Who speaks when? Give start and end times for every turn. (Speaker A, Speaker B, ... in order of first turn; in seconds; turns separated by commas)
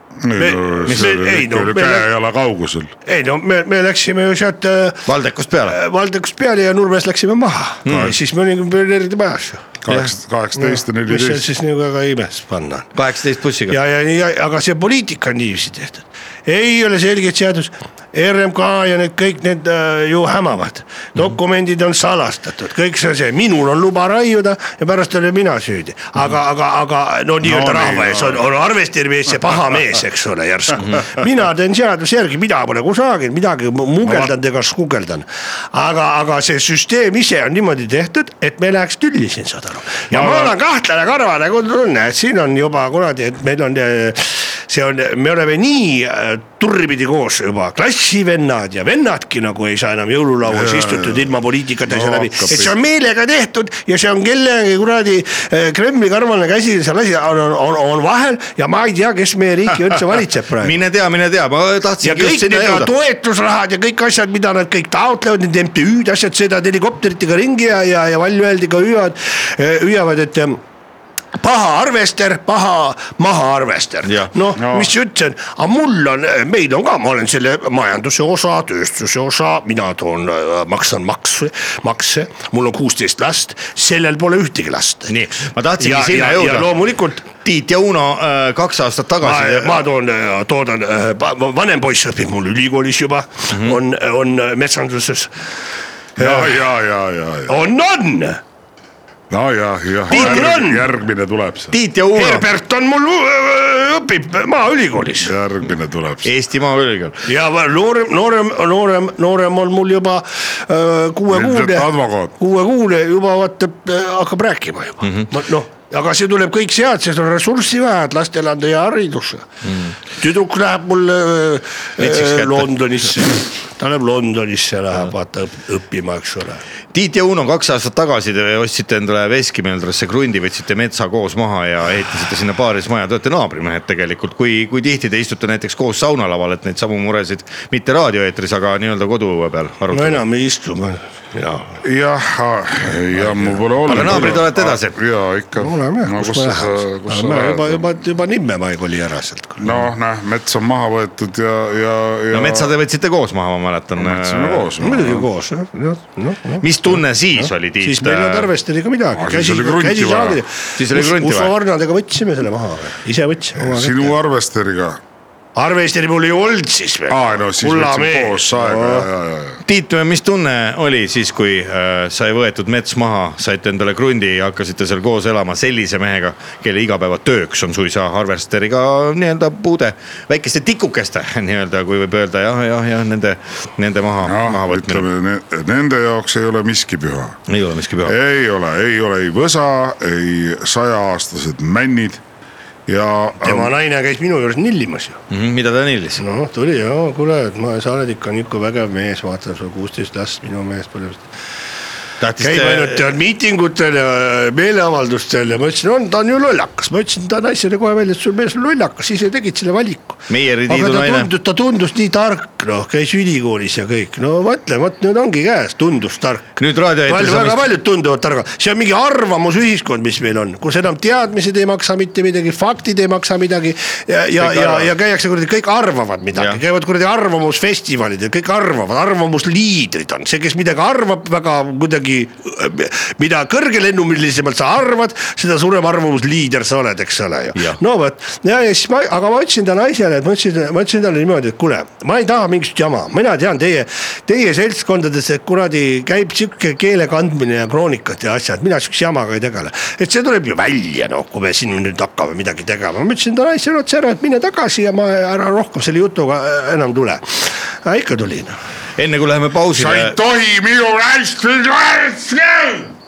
Speaker A: 0.2-2.9, Speaker B: 0.4-2.1, Speaker B: 3.1-5.0, Speaker C: 5.1-5.8, Speaker B: 5.7-9.7, Speaker C: 7.9-8.1, Speaker A: 7.9-8.1, Speaker A: 9.8-11.5, Speaker B: 10.6-12.9, Speaker C: 12.9-13.8, Speaker B: 13.7-60.8, Speaker A: 27.4-28.4, Speaker A: 40.1-40.5, Speaker A: 50.5-51.3, Speaker A: 51.9-52.8, Speaker C: 60.6-62.9, Speaker B: 62.0-70.6, Speaker B: 71.4-85.1, Speaker C: 74.0-74.3, Speaker A: 74.6-74.9, Speaker C: 85.1-86.7, Speaker B: 85.8-87.3, Speaker C: 87.4-89.8, Speaker B: 89.2-95.3, Speaker C: 93.5-93.8, Speaker B: 96.2-96.6, Speaker A: 96.2-97.5, Speaker B: 97.5-98.4, Speaker A: 99.3-101.8, Speaker C: 100.1-100.4, Speaker B: 100.1-100.8, Speaker C: 101.7-102.5, Speaker B: 102.2-105.3, Speaker A: 105.2-106.3, Speaker C: 106.2-107.2, Speaker B: 107.3-119.5, Speaker A: 111.3-112.4, Speaker C: 115.0-115.3, Speaker B: 120.2-126.6, Speaker C: 122.0-122.7, Speaker C: 126.9-140.2, Speaker B: 139.9-141.8, Speaker A: 141.8-147.9, Speaker B: 143.2-144.4, Speaker C: 143.9-144.9, Speaker B: 145.6-149.8, Speaker A: 149.6-152.8, Speaker C: 152.3-154.7, Speaker A: 154.0-155.3, Speaker B: 154.8-164.2, Speaker C: 156.6-158.5, Speaker A: 159.1-160.4, Speaker C: 160.8-161.5, Speaker A: 163.6-165.0, Speaker B: 165.6-169.1, Speaker A: 167.1-169.6, Speaker C: 169.7-185.1, Speaker A: 184.2-187.4, Speaker C: 187.5-188.1, Speaker A: 188.1-192.2, Speaker A: 192.9-193.7, Speaker B: 193.4-195.2, Speaker C: 195.3-196.2, Speaker B: 196.2-201.3, Speaker C: 202.2-203.1, Speaker B: 202.4-258.6, Speaker C: 210.3-211.3, Speaker C: 216.6-217.6, Speaker C: 224.4-224.9, Speaker C: 259.0-260.2, Speaker A: 259.7-262.9